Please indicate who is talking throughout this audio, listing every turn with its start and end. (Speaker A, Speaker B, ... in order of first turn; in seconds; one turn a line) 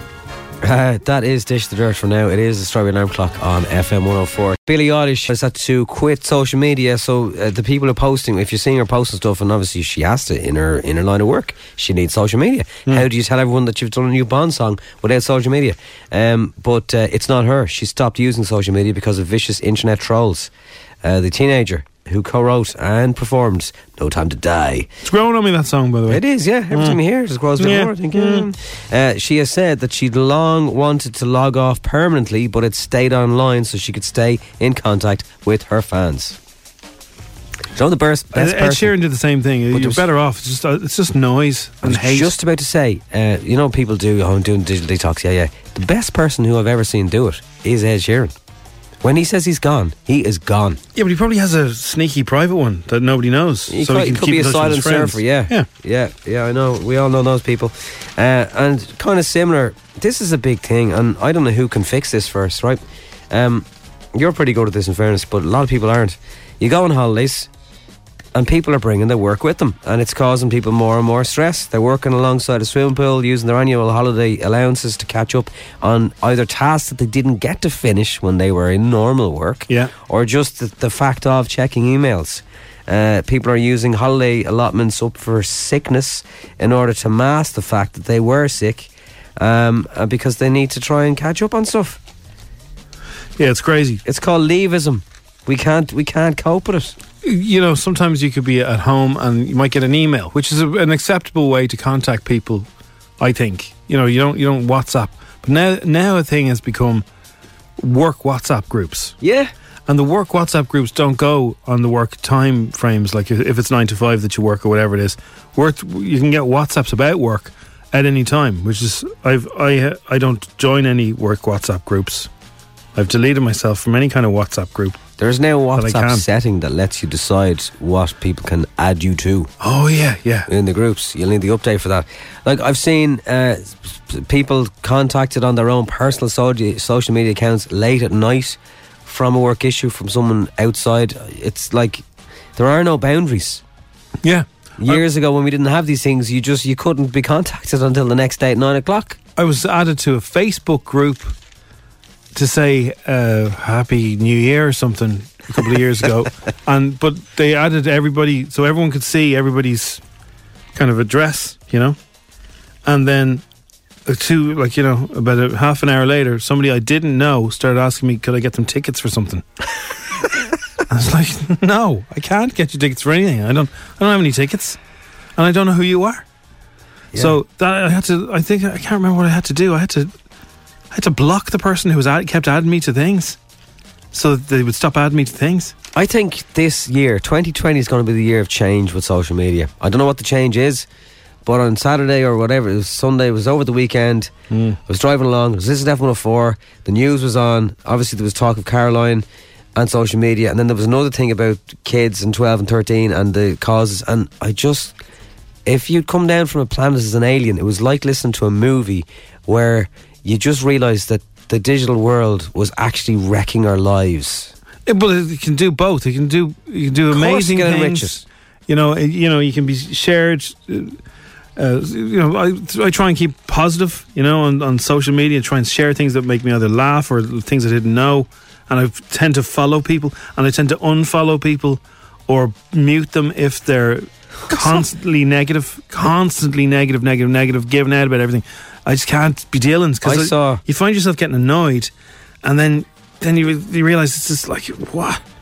Speaker A: 0.6-20.5
Speaker A: 21.0-24.9
Speaker B: 25.0-27.0
Speaker A: 26.1-36.4
Speaker B: 27.6-28.5
Speaker A: 37.7-38.9
Speaker B: 38.3-42.3
Speaker A: 39.7-40.0
Speaker A: 41.8-48.3
Speaker A: 49.0-50.8
Speaker B: 50.9-55.7
Speaker A: 53.7-67.5
Speaker A: 68.3-92.0
Speaker B: 93.4-94.0
Speaker A: 94.0-96.9
Speaker B: 97.2-102.7
Speaker B: 103.2-107.0
Speaker B: 107.8-109.2
Speaker A: 109.2-109.5
Speaker B: 109.9-122.3
Speaker B: 122.9-125.0
Speaker A: 125.2-129.5
Speaker B: 125.8-126.2
Speaker B: 129.6-130.5
Speaker A: 130.5-142.0
Speaker A: 142.6-143.6
Speaker B: 144.2-145.0
Speaker A: 144.8-149.2
Speaker B: 149.3-151.3
Speaker B: 152.3-160.0
Speaker B: 160.7-162.0
Speaker B: 162.8-163.4
Speaker B: 164.1-169.4
Speaker B: 170.9-174.8
Speaker B: 175.4-176.2
Speaker B: 177.1-180.1
Speaker B: 180.9-183.4
Speaker B: 184.1-185.7
Speaker A: 185.9-190.9
Speaker A: 191.4-194.3
Speaker B: 194.5-194.8
Speaker A: 194.9-205.0
Speaker A: 205.7-214.5
Speaker B: 214.9-221.0
Speaker A: 217.1-218.2
Speaker B: 221.6-241.9
Speaker A: 234.5-234.8
Speaker A: 240.0-240.6
Speaker B: 242.4-245.2